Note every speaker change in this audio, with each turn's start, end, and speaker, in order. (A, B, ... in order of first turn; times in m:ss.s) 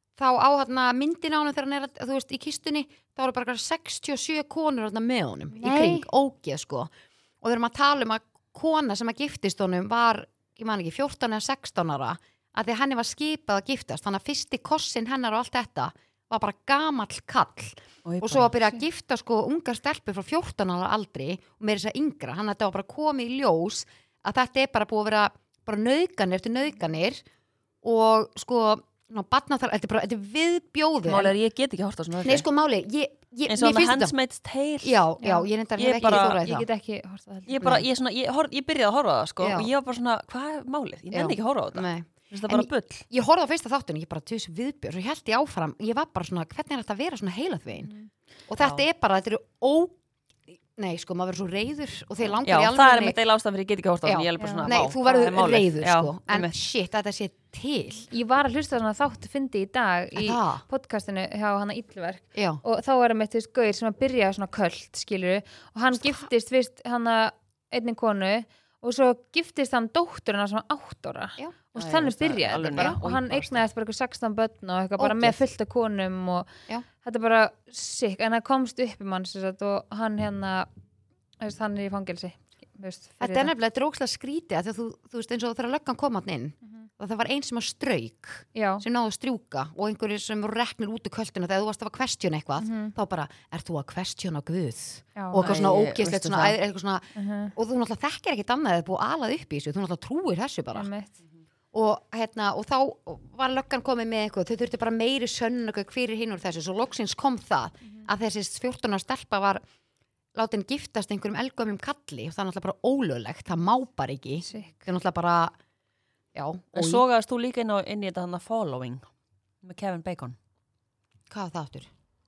0:00.2-0:06.9 A
0:05.5-0:06.1 B
0:07.4-0:27.2 A
0:18.0-0:18.5 C
0:27.8-0:31.3 A
0:31.0-0:32.4 C
0:32.2-0:34.1 A
0:33.5-0:35.0 C
0:34.8-0:36.7 A
0:35.2-0:35.5 B
0:35.8-0:36.4 C
0:36.3-0:37.8 B
0:37.5-0:43.0 C
0:39.4-0:39.7 A
0:41.1-0:47.9 A
0:47.8-0:48.1 B
0:48.5-0:50.0 A
0:50.5-0:53.2 A
0:52.4-0:56.5 C
0:54.0-0:58.1 A
0:54.4-0:54.7 B
0:58.1-1:20.7 B
1:00.2-1:00.6 A
1:02.3-1:02.6 A
1:05.9-1:06.3 A
1:11.8-1:13.6 C
1:15.0-1:15.4 A
1:21.4-1:23.5 B
1:23.2-1:40.9 A
1:28.5-1:28.8 B
1:32.6-1:32.9 B
1:35.2-1:35.5 B
1:35.4-1:36.6 C
1:37.2-1:37.5 B
1:40.7-1:41.2 B
1:41.7-1:49.6 A
1:50.3-1:55.6 A
1:54.4-1:54.8 B
1:56.3-1:57.0 A
1:56.7-1:59.0 C
1:59.6-2:00.4 C
2:01.3-2:01.9 A